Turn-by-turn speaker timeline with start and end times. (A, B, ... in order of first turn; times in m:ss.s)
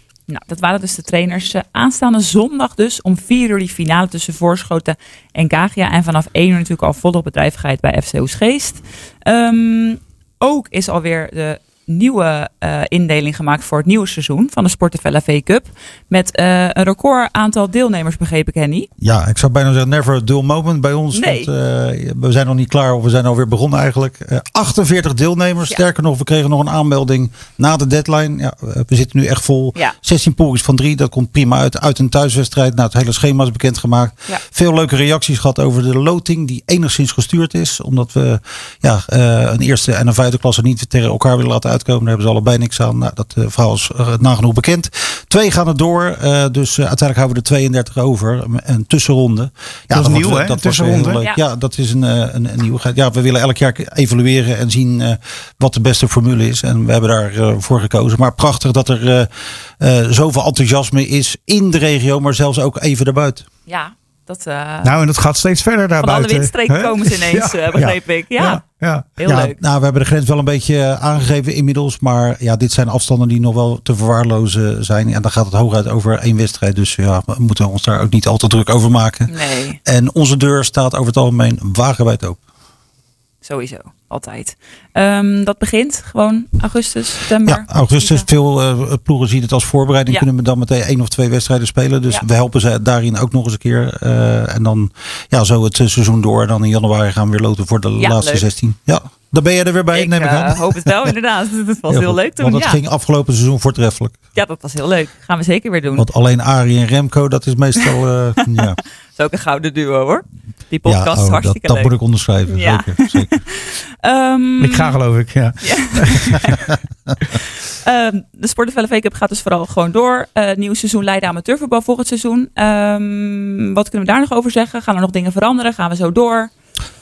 0:00.3-0:18.9 A
0:19.0-1:03.5 B
0:21.1-0:21.5 A
0:49.9-0:51.2 C
1:03.7-1:04.9 A
1:04.8-1:09.1 C
1:06.0-1:08.6 A
1:09.2-1:09.6 A
1:09.2-1:19.3 B
1:19.3-1:19.8 A
1:19.8-1:22.4 B
1:23.4-1:28.3 A
1:27.4-1:41.1 B
1:38.0-1:38.5 A
1:39.9-1:42.8 A
1:41.9-1:44.2 B
1:44.3-1:46.1 A
1:46.0-1:48.8 B
1:49.2-1:51.9 A
1:50.8-1:53.3 B
1:52.5-1:55.0 A
1:54.6-1:56.5 C
1:55.6-1:56.6 A
1:57.8-2:06.5 A